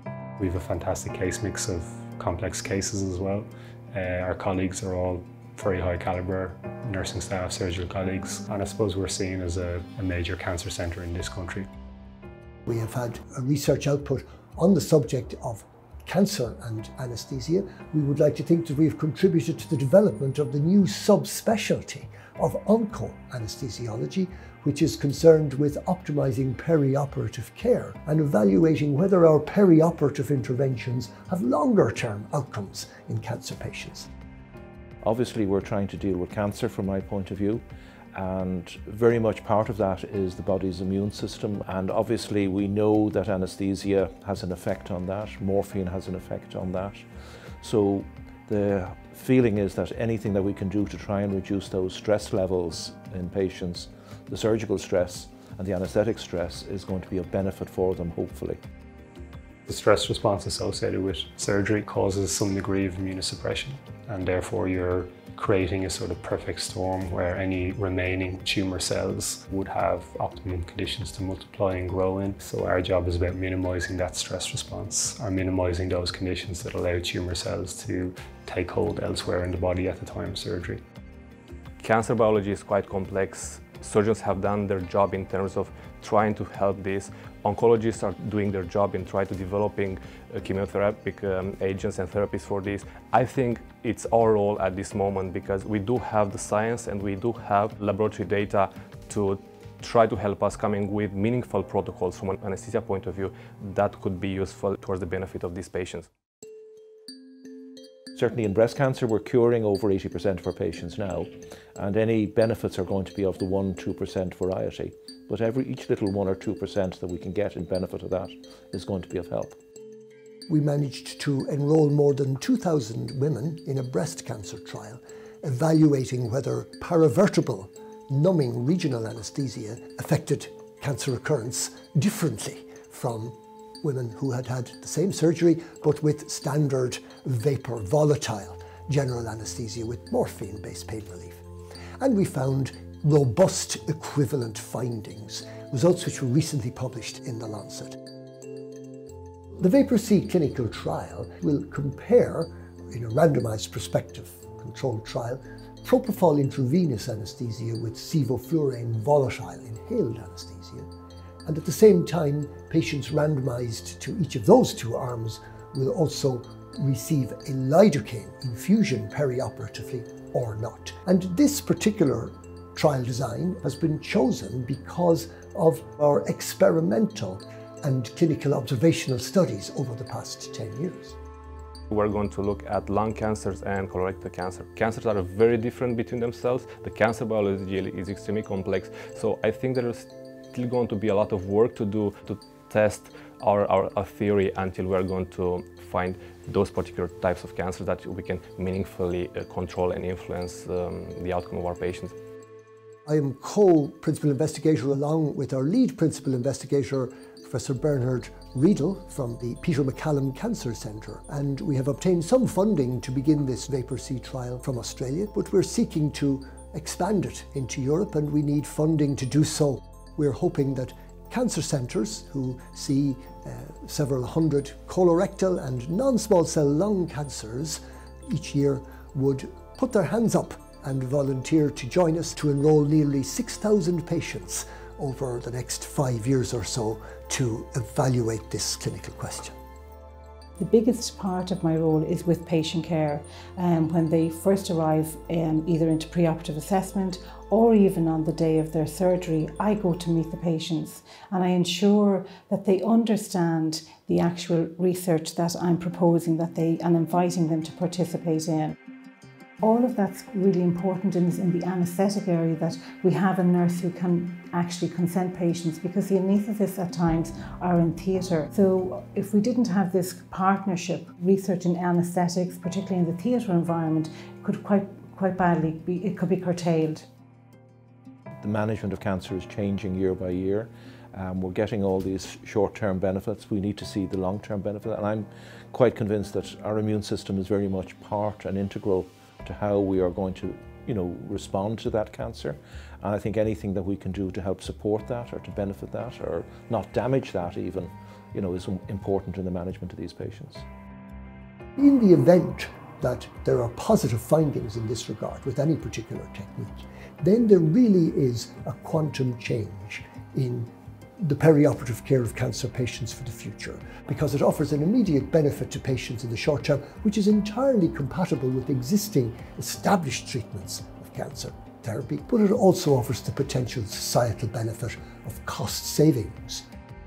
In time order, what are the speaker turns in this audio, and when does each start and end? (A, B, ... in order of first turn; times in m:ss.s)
0:00.4-0:11.7 A
0:12.7-0:34.1 B
0:35.0-0:37.6 C
0:38.1-0:47.0 C
0:47.6-0:58.6 C
0:59.6-1:20.8 A
1:21.8-1:46.1 D
1:48.1-1:59.6 C
2:00.5-2:21.4 B
2:22.0-2:28.0 B
2:29.5-2:40.9 B
2:41.4-3:01.2 B
3:01.9-3:22.1 D
3:23.0-3:59.6 B
4:00.6-4:18.8 E
4:19.6-4:37.0 E
4:38.4-5:00.6 C
5:01.8-5:26.6 B